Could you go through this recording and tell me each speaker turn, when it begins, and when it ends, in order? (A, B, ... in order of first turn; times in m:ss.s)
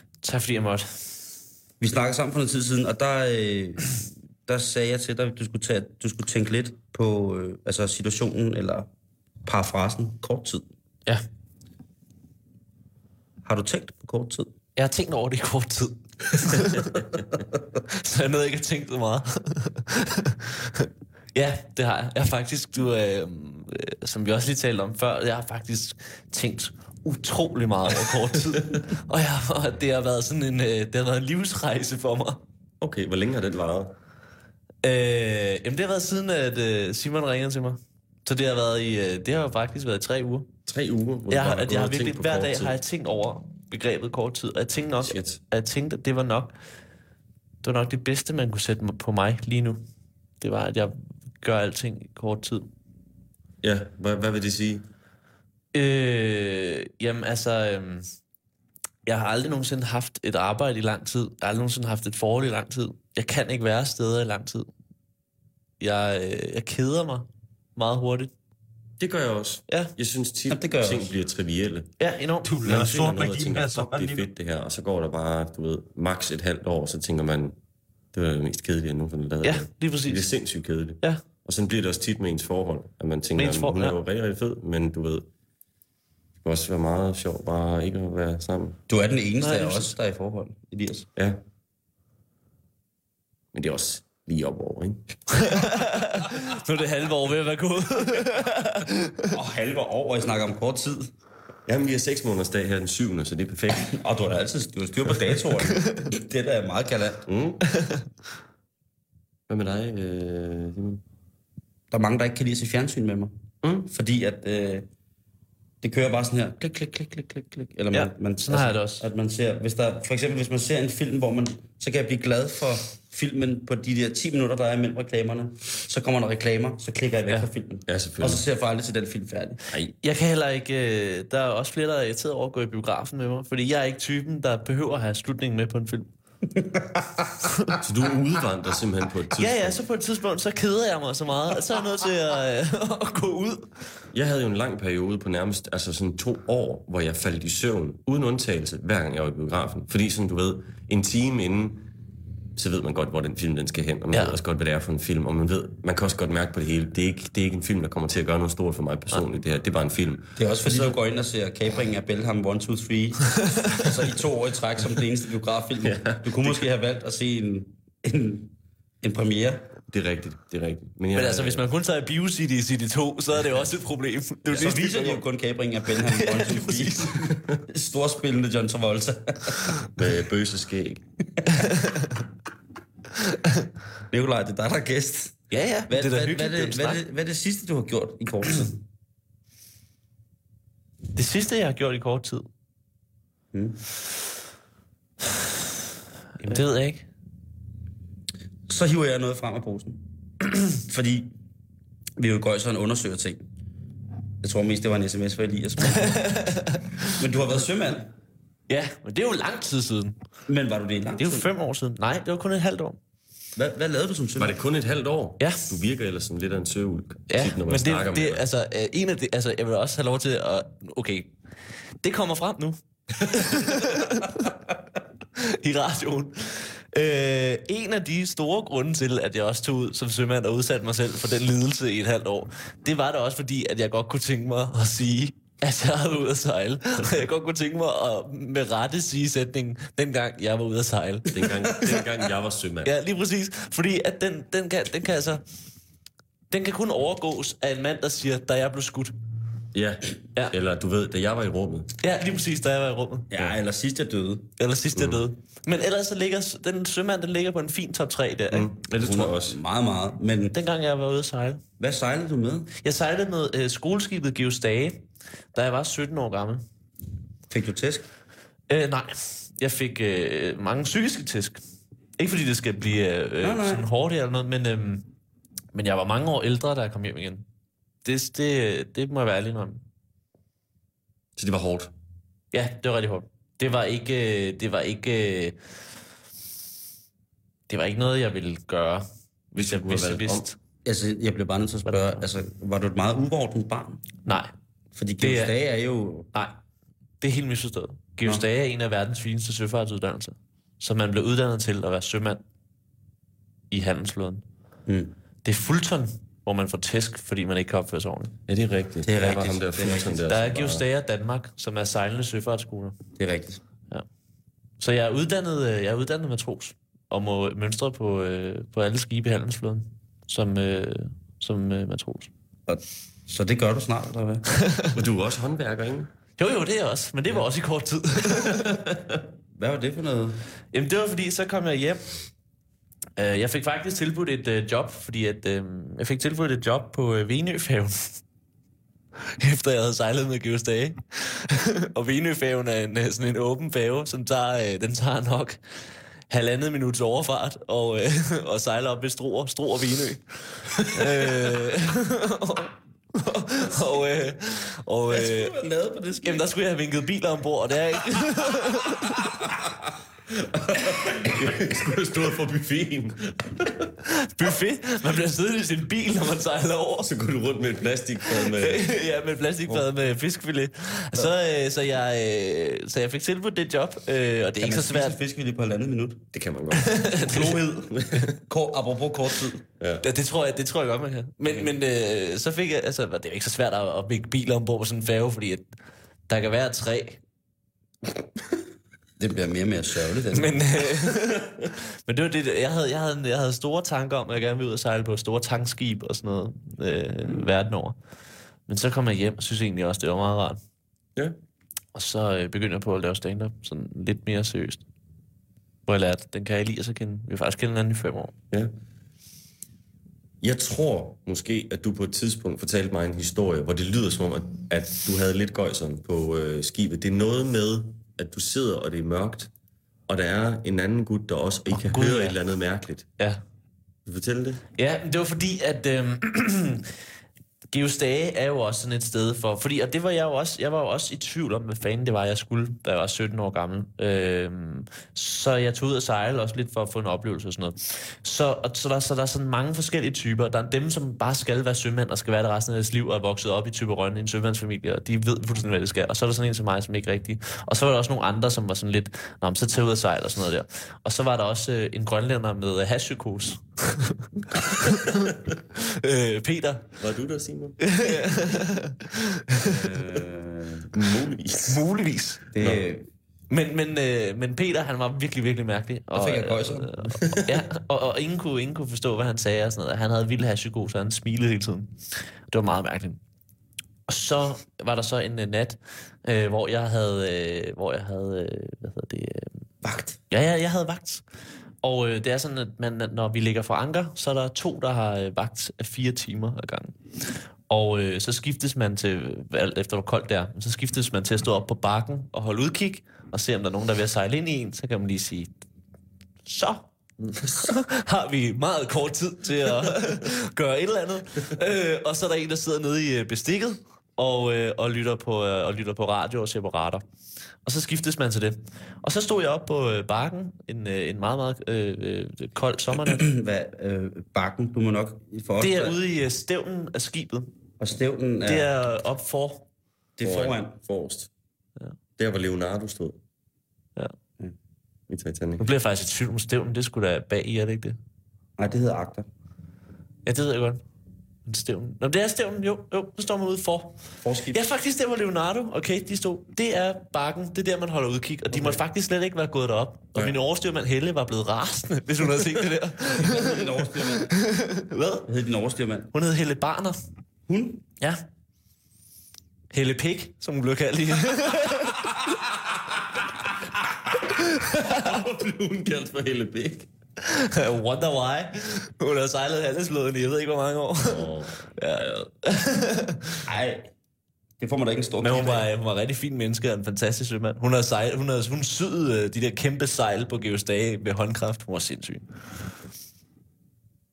0:00.2-0:01.2 A
0:01.8-0:08.9 B
0:09.4-0:10.7 B
0:13.4-0:14.5 B
0:14.8-0:17.0 A
0:17.9-0:32.4 A
0:32.8-0:33.9 C
0:34.8-0:40.5 A
0:40.7-0:42.8 C
0:41.3-0:46.5 A
0:45.0-0:45.4 C
0:47.6-0:49.8 A
0:50.4-0:52.7 A
0:53.6-0:54.8 C
0:55.7-0:58.1 A
0:59.0-1:04.7 A
1:05.8-1:08.3 A
1:09.0-1:11.9 C
1:09.7-1:09.9 A
1:10.5-1:11.1 B
1:12.0-1:13.0 A
1:12.4-1:14.3 B
1:12.4-1:17.6 C
1:18.1-1:25.3 C
1:19.4-1:21.2 A
1:23.4-1:24.0 A
1:26.4-1:28.8 C
1:28.9-1:31.1 B
1:29.4-1:29.9 A
1:31.2-1:31.4 C
1:33.5-1:35.6 C
1:35.4-1:39.3 A
1:39.3-1:41.1 B
1:41.6-1:43.9 C
1:43.8-1:47.2 B
1:47.2-1:47.6 C
1:47.7-1:48.0 A
1:49.5-1:51.0 C
1:51.9-1:53.3 B
1:53.6-1:53.9 C
1:53.8-1:54.9 B
1:55.8-2:09.6 B
1:57.9-1:59.1 A
2:07.8-2:08.4 C
2:10.0-2:16.1 A
2:16.6-2:17.3 B
2:17.8-2:19.8 C
2:19.3-2:23.9 A
2:24.1-2:31.9 C
2:32.6-2:41.0 C
2:34.1-2:34.4 A
2:40.4-2:49.7 B
2:45.8-2:46.7 C
2:49.9-2:51.6 C
2:51.1-2:55.2 A
2:54.5-3:00.0 B
2:56.0-2:57.2 A
3:00.0-3:01.0 C
3:01.6-3:02.1 A
3:03.2-3:03.6 A
3:04.1-3:08.8 B
3:05.5-3:07.0 A
3:11.1-3:12.5 A
3:13.5-3:13.8 B
3:16.4-3:17.1 A
3:18.7-3:20.0 B
3:20.8-3:21.3 B
3:22.2-3:23.4 B
3:24.4-3:26.5 B
3:25.9-3:26.8 A
3:27.2-3:28.1 B
3:28.7-3:30.2 A
3:30.5-3:31.5 B
3:31.2-3:33.0 A
3:33.6-3:34.6 B
3:34.4-3:38.4 C
3:35.4-3:35.8 A
3:37.3-3:41.4 A
3:42.0-3:44.6 A
3:45.4-4:02.1 A
4:01.3-4:02.9 C
4:02.8-4:05.4 A
4:06.5-4:09.1 A
4:09.7-4:11.9 C
4:12.0-4:13.5 A
4:13.3-4:14.5 B
4:14.6-4:18.7 A
4:14.9-4:15.2 C
4:18.5-4:19.6 C
4:19.0-4:20.5 B
4:20.5-4:21.6 A
4:21.8-4:22.7 B
4:22.8-4:26.6 A
4:27.5-4:28.0 B
4:28.7-4:31.6 A
4:32.2-4:35.0 A
4:33.4-4:33.9 B
4:35.7-4:37.4 A
4:38.0-4:39.8 A
4:41.4-4:41.9 C
4:42.5-4:45.6 A
4:47.7-4:50.6 A
4:49.5-4:50.5 C
4:50.8-4:54.0 B
4:51.9-4:52.2 A
4:54.2-4:54.5 A
4:54.9-4:56.3 B
4:55.2-4:55.5 A
4:56.3-4:56.6 A
4:57.2-5:02.4 A
5:03.7-5:04.4 A
5:04.9-5:05.1 B
5:05.4-5:08.4 A
5:08.5-5:10.8 C
5:09.0-5:10.2 B
5:10.1-5:13.0 A
5:13.2-5:13.6 B
5:14.8-5:22.3 A
5:22.7-5:24.4 B
5:24.6-5:24.9 A
5:24.9-5:26.1 C
5:26.4-5:28.8 A
5:29.5-5:30.4 B
5:30.7-5:32.0 A
5:33.2-5:38.2 A
5:39.4-5:45.6 A
5:46.3-5:55.5 A
5:55.1-5:56.5 B
5:56.2-5:59.1 A
6:00.7-6:01.7 B
6:01.3-6:03.9 C
6:04.1-6:07.1 A
6:07.0-6:08.8 C
6:08.3-6:15.2 A
6:14.6-6:16.2 B
6:16.3-6:18.3 C
6:16.7-6:17.5 A
6:17.2-6:19.6 B
6:20.0-6:25.7 A
6:26.3-6:27.2 A
6:29.2-6:30.6 B
6:30.3-6:31.5 A
6:32.0-6:38.0 A
6:38.7-6:40.6 A
6:41.9-6:44.8 A
6:45.8-6:48.3 A
6:50.4-6:59.5 C
7:00.1-7:03.1 C
7:01.7-7:02.4 A
7:04.0-7:04.6 C
7:04.7-7:06.9 A
7:07.7-7:35.2 A
7:35.8-7:37.0 A
7:37.0-7:37.8 C
7:37.8-7:39.7 A
7:39.6-7:40.9 B
7:40.9-7:41.8 C
7:41.6-7:42.5 A
7:42.5-7:43.1 B
7:42.6-7:42.8 C
7:43.5-7:53.2 A
7:46.1-7:47.4 B
7:54.1-7:59.5 A
7:59.8-8:00.2 B
8:00.3-8:01.2 A
8:01.8-8:15.5 A
8:16.4-8:27.0 A
8:27.6-8:33.2 A
8:33.0-8:36.0 B
8:35.6-8:37.5 A
8:37.8-8:38.7 B
8:38.4-8:39.7 A
8:40.2-8:40.8 B
8:40.2-8:41.3 C
8:42.2-8:43.2 C
8:45.1-8:45.6 C
8:45.6-8:48.0 A
8:48.6-8:49.3 B
8:50.2-8:50.8 A
8:51.4-9:05.3 A
8:54.2-8:54.6 B
8:58.5-8:58.8 B
9:03.2-9:04.3 B
9:05.2-9:06.1 B
9:06.1-9:07.0 A
9:07.5-9:07.8 B
9:08.0-9:08.2 A
9:09.7-9:12.0 A
9:14.4-9:15.0 A
9:15.0-9:16.9 C
9:17.2-9:23.5 A
9:21.0-9:21.5 C
9:23.4-9:23.9 B
9:24.6-9:25.7 B
9:25.2-9:32.7 A